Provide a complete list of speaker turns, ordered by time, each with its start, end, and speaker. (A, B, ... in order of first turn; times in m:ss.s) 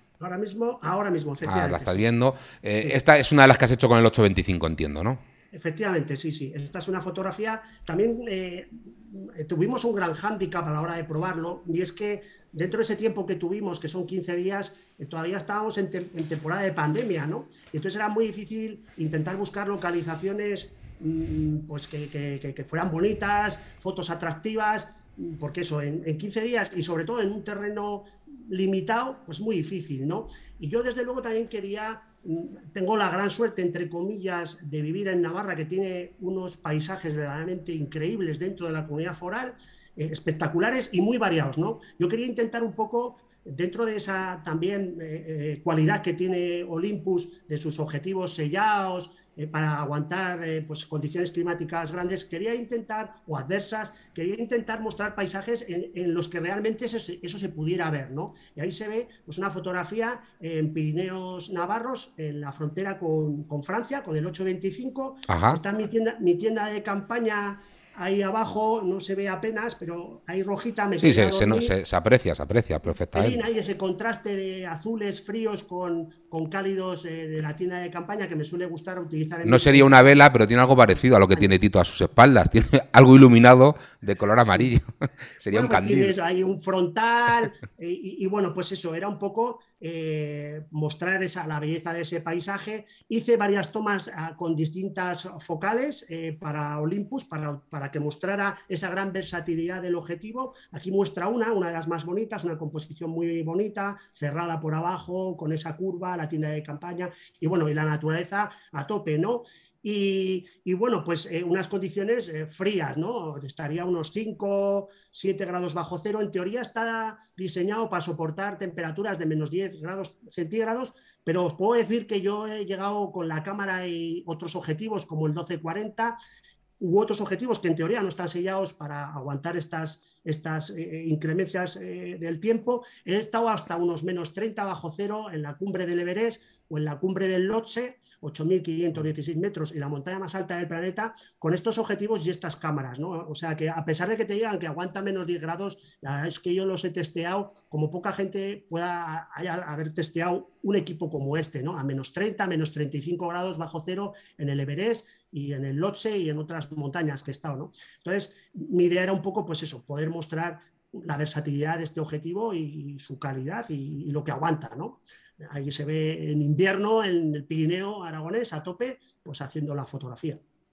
0:00.2-0:02.1 A
0:01.4-0:05.2 B
0:05.5-1:11.7 A
1:05.3-1:05.6 B
1:11.0-1:13.4 B
1:13.1-1:20.2 A
1:19.4-1:26.2 B
1:25.5-2:06.2 A
2:06.8-2:50.4 A